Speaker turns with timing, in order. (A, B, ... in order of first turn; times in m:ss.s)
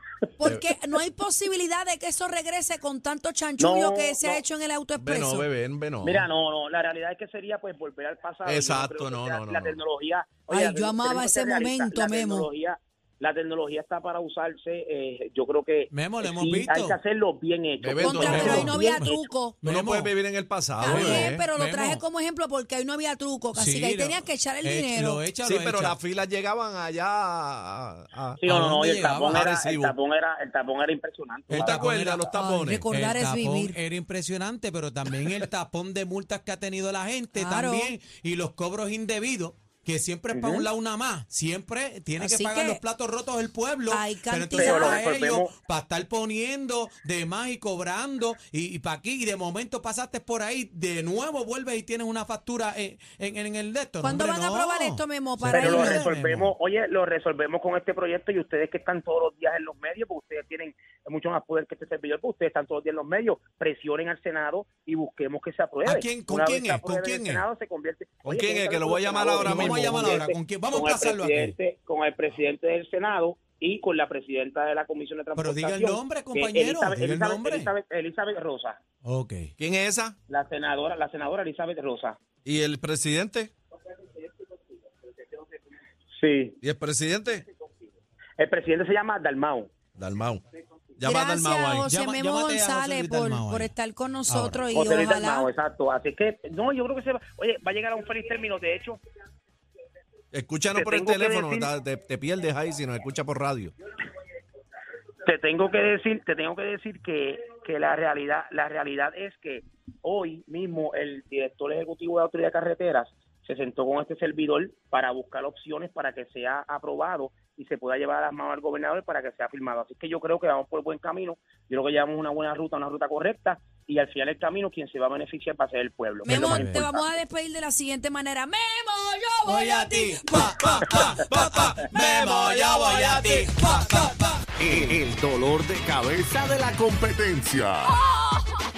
0:00.4-0:05.5 A
0:03.6-0:04.4 B
0:05.0-0:06.3 C
0:06.0-0:19.2 B
0:08.4-0:09.8 C
0:10.5-0:12.5 A
0:15.9-0:17.0 D
0:17.8-0:18.8 C
0:18.0-0:19.6 A
0:18.2-0:20.1 D
0:19.6-0:21.5 C
0:20.8-0:25.2 A
0:20.8-0:22.0 D
0:23.5-0:26.0 D
0:25.4-0:28.4 C
0:28.4-0:32.0 B
0:28.4-0:29.4 D
0:29.3-0:29.9 C
0:31.5-0:32.3 D
0:31.6-0:32.8 C
0:32.3-0:33.8 A
0:32.9-0:56.5 D
0:37.3-0:37.9 A
0:40.3-0:40.7 B
0:42.2-0:42.8 A
0:43.9-0:45.0 A
0:44.5-0:45.5 B
0:54.0-0:56.0 A
0:55.5-1:18.8 B
1:05.8-1:07.3 D
1:06.5-1:07.4 C
1:08.2-1:10.1 C
1:09.4-1:11.6 D
1:15.3-1:17.7 D
1:19.0-1:19.5 D
1:19.6-1:20.2 C
1:20.3-1:22.2 B
1:22.4-1:23.5 C
1:26.2-1:26.6 B
1:26.6-1:27.4 C
1:28.4-1:29.7 B
1:30.0-1:30.4 C
1:31.0-1:31.9 C
1:31.0-1:35.5 A
1:31.9-1:33.7 D
1:34.3-1:34.6 D
1:34.7-1:39.0 B
1:40.3-1:43.7 C
1:40.7-1:41.7 B
1:45.2-2:07.2 B
2:06.2-2:06.9 D
2:06.2-2:10.7 A
2:09.4-2:14.4 D
2:10.6-2:13.8 C
2:11.2-2:14.0 E
2:14.6-2:18.0 E